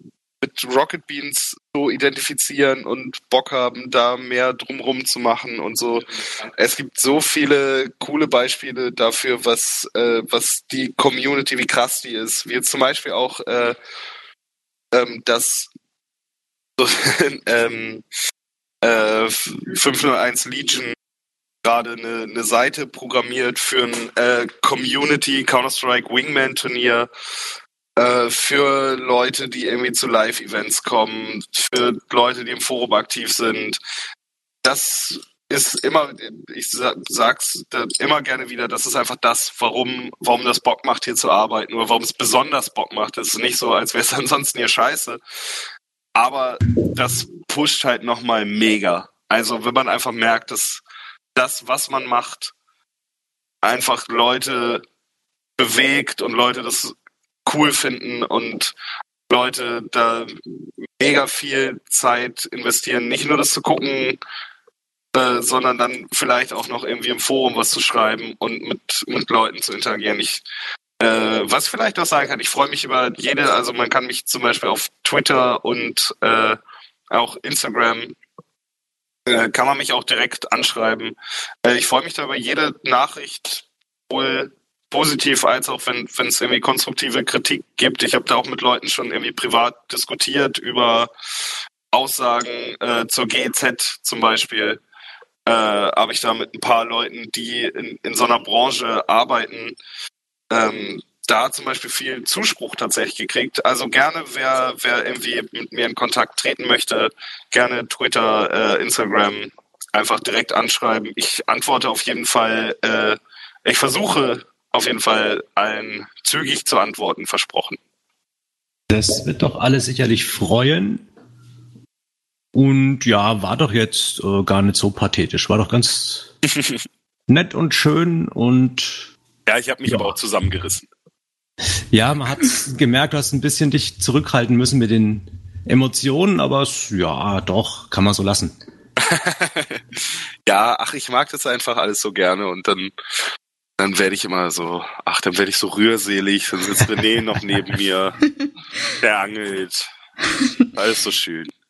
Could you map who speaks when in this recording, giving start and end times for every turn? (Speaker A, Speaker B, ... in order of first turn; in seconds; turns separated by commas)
Speaker A: 0.4-13.8, Speaker A: 14.9-15.7, Speaker A: 16.8-18.0, Speaker A: 18.8-20.9, Speaker A: 21.6-27.1, Speaker A: 27.9-33.8, Speaker A: 34.6-45.2, Speaker A: 46.1-50.8, Speaker A: 51.4-52.5, Speaker A: 53.6-54.8, Speaker A: 55.6-56.9, Speaker A: 57.4-58.7, Speaker A: 59.3-60.4, Speaker A: 61.0-64.2, Speaker A: 65.1-70.4, Speaker A: 71.0-76.6, Speaker A: 77.1-78.1, Speaker A: 79.2-91.1, Speaker A: 91.9-94.8, Speaker A: 95.5-99.8, Speaker A: 100.5-117.8, Speaker B: 118.9-121.0, Speaker B: 122.5-126.3, Speaker A: 126.5-126.8, Speaker B: 127.3-129.1, Speaker A: 129.5-130.9, Speaker B: 129.9-130.2, Speaker B: 131.9-138.5, Speaker A: 139.0-142.9, Speaker A: 143.8-148.2, Speaker A: 149.0-149.8, Speaker A: 150.7-151.5